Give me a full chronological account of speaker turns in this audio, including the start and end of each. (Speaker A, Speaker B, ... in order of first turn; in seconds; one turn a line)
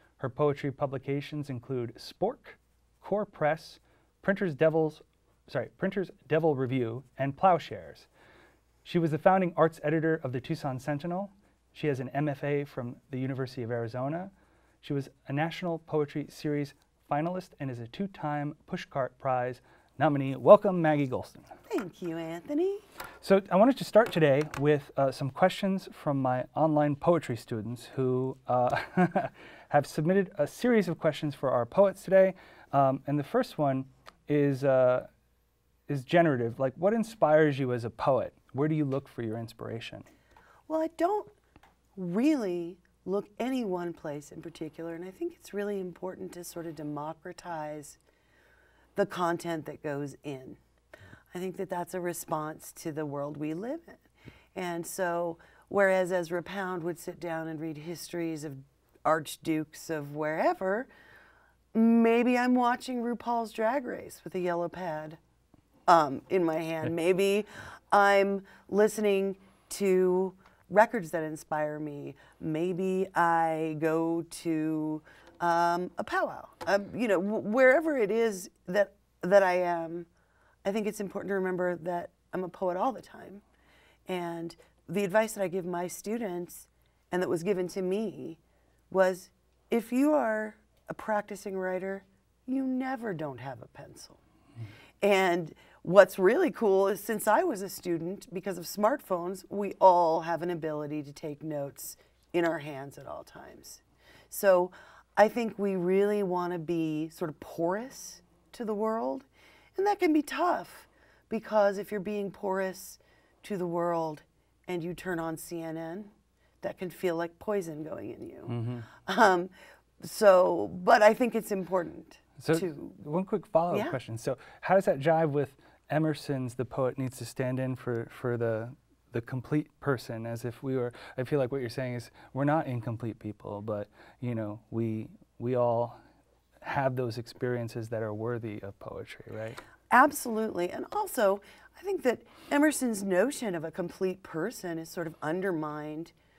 Speaker A: 0.2-8.1
Speaker A: 8.8-21.5
Speaker B: 21.7-22.8
Speaker A: 23.2-35.1
Speaker A: 35.9-40.1
Speaker B: 40.7-41.3
Speaker B: 42.0-48.0
Speaker B: 49.0-50.6
Speaker B: 51.3-54.0
Speaker B: 54.5-60.9
Speaker B: 61.7-65.2
Speaker B: 65.9-80.1
Speaker B: 80.6-83.4
Speaker B: 84.1-94.2
Speaker B: 95.0-123.0
Speaker A: 118.5-118.9
Speaker A: 122.4-136.0
Speaker B: 123.7-124.0
Speaker A: 136.6-139.6
Speaker B: 139.9-146.1